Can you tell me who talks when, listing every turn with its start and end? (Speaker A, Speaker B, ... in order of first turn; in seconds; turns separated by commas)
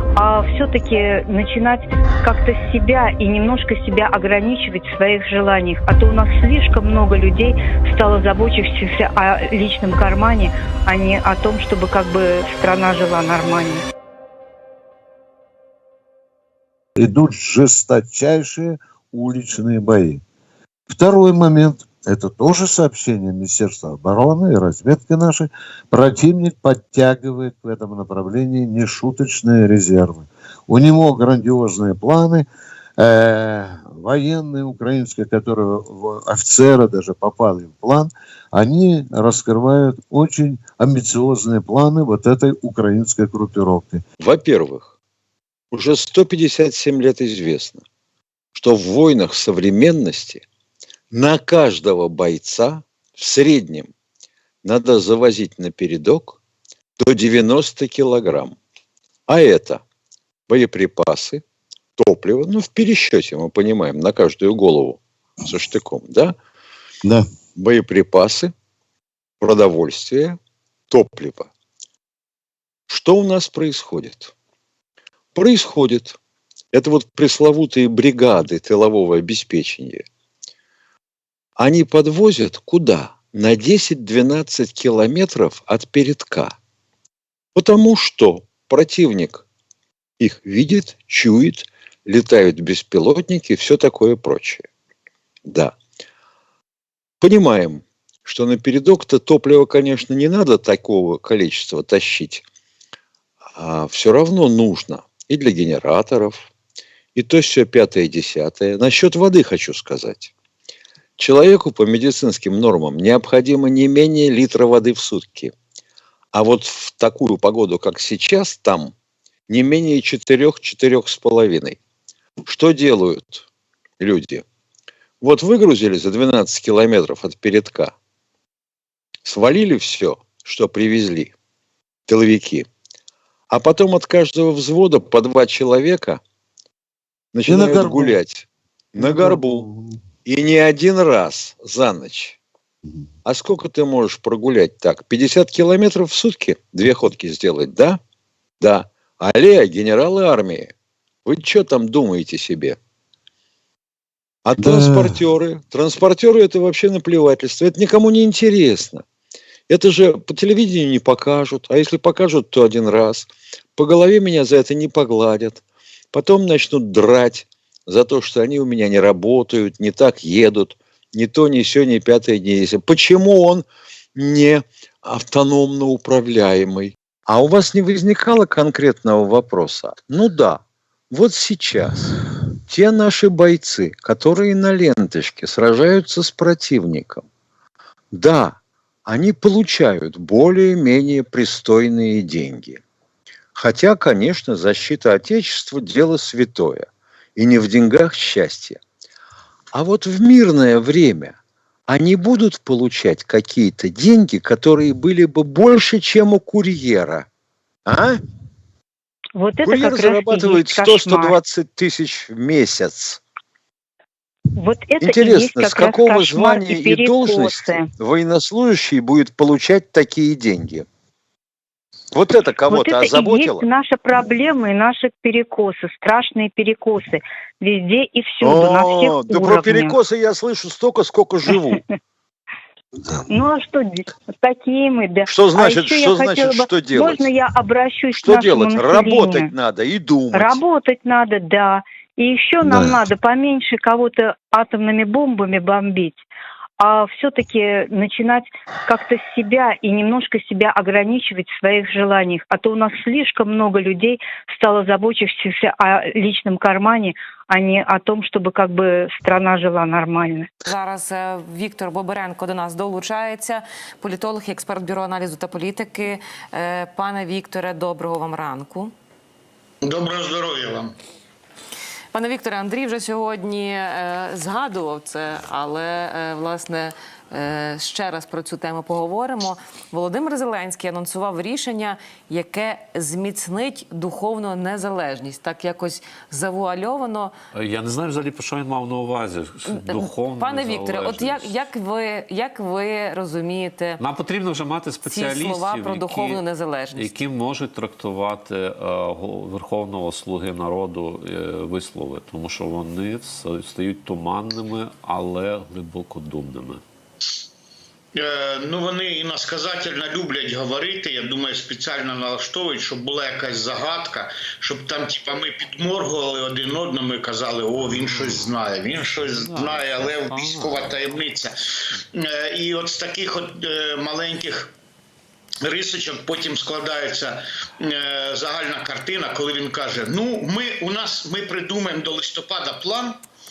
Speaker A: 0.1-13.8, Speaker B: 17.0-20.2, Speaker B: 20.9-32.5, Speaker B: 33.0-44.0, Speaker C: 44.2-44.9, Speaker C: 45.7-47.8, Speaker C: 48.5-50.4, Speaker C: 51.1-53.9, Speaker C: 54.6-56.4, Speaker C: 57.0-58.6, Speaker C: 59.3-59.8, Speaker C: 60.5-61.4, Speaker C: 62.0-66.3, Speaker C: 67.5-68.5, Speaker C: 69.4-70.4, Speaker C: 70.9-71.5, Speaker C: 72.9-74.3, Speaker C: 75.3-76.2, Speaker C: 76.7-80.0, Speaker C: 81.6-86.5, Speaker C: 87.5-89.4, Speaker C: 90.2-94.7, Speaker C: 95.5-95.8, Speaker C: 97.2-102.4, Speaker C: 103.6-106.5, Speaker C: 107.2-110.3, Speaker C: 111.2-115.5, Speaker C: 116.3-118.9, Speaker C: 119.5-121.8, Speaker C: 122.4-123.4, Speaker C: 124.0-124.4, Speaker C: 125.2-127.9, Speaker C: 129.2-131.3, Speaker C: 132.1-132.7, Speaker C: 133.5-136.2, Speaker C: 137.3-139.6, Speaker B: 137.5-138.1, Speaker B: 139.0-140.0, Speaker C: 140.2-142.4, Speaker C: 143.2-148.0, Speaker C: 148.6-150.7, Speaker C: 151.2-152.8, Speaker C: 154.4-159.0, Speaker B: 154.6-155.2, Speaker C: 159.7-165.6, Speaker C: 166.1-187.2, Speaker C: 188.1-192.8, Speaker C: 193.5-198.8, Speaker C: 199.7-201.3, Speaker C: 201.9-207.2, Speaker C: 207.8-208.2, Speaker A: 209.4-211.4, Speaker C: 209.6-213.2, Speaker A: 214.6-217.8, Speaker C: 215.0-220.8, Speaker C: 222.1-223.6, Speaker A: 222.7-229.9, Speaker C: 228.4-231.8, Speaker A: 233.3-239.5, Speaker C: 235.3-237.3, Speaker C: 238.1-240.6, Speaker A: 240.3-246.2, Speaker A: 246.8-260.5, Speaker D: 260.6-268.9, Speaker E: 269.8-270.9, Speaker D: 272.1-287.3, Speaker F: 287.5-291.7, Speaker D: 289.6-294.0, Speaker F: 294.0-306.8, Speaker D: 295.0-297.2, Speaker E: 308.1-321.5, Speaker F: 319.3-320.9, Speaker E: 322.1-324.7, Speaker E: 325.6-333.2